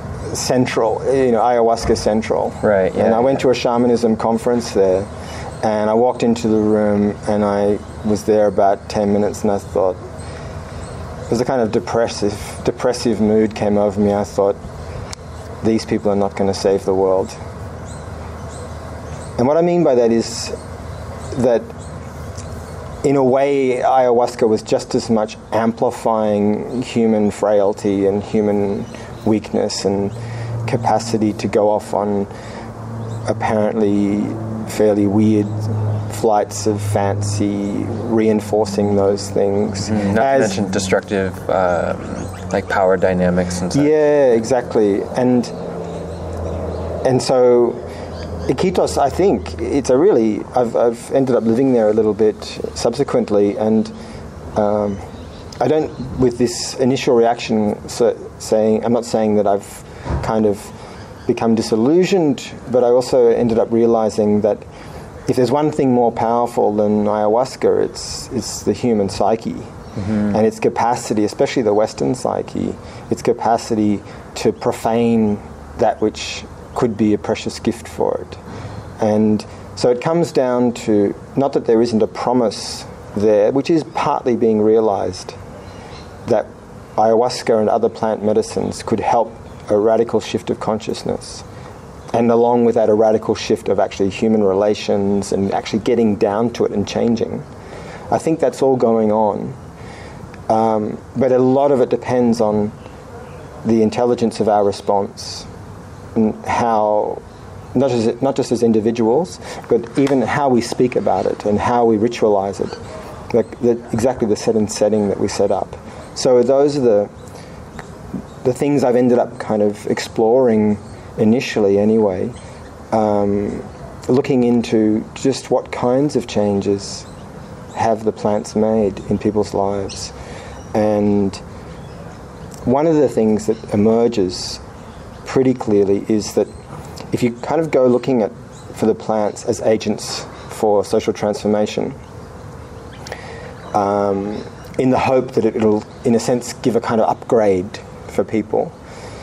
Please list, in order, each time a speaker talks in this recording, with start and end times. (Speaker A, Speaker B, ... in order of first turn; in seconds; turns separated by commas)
Speaker A: 0.3-5.1, Speaker B: 2.6-3.4, Speaker A: 5.6-10.0, Speaker A: 11.3-14.6, Speaker A: 15.6-17.4, Speaker A: 19.4-20.6, Speaker A: 21.3-21.7, Speaker A: 23.0-30.1, Speaker A: 30.6-32.3, Speaker A: 33.3-40.6, Speaker B: 39.8-43.9, Speaker A: 43.7-45.5, Speaker A: 47.0-47.8, Speaker A: 48.5-53.9, Speaker A: 54.5-55.0, Speaker A: 55.6-60.7, Speaker A: 61.3-64.7, Speaker A: 65.3-69.7, Speaker B: 70.0-70.4, Speaker A: 70.3-78.4, Speaker A: 79.0-85.4, Speaker A: 86.2-91.4, Speaker A: 92.1-97.5, Speaker A: 98.1-99.6, Speaker A: 100.5-102.7, Speaker A: 103.6-105.5, Speaker A: 106.1-107.2, Speaker A: 107.7-112.8, Speaker A: 113.3-117.1, Speaker A: 118.4-122.3, Speaker A: 122.9-127.1, Speaker A: 127.7-130.1, Speaker A: 130.7-131.4, Speaker A: 132.6-134.6, Speaker A: 135.2-136.5, Speaker A: 137.1-141.9, Speaker A: 143.7-148.7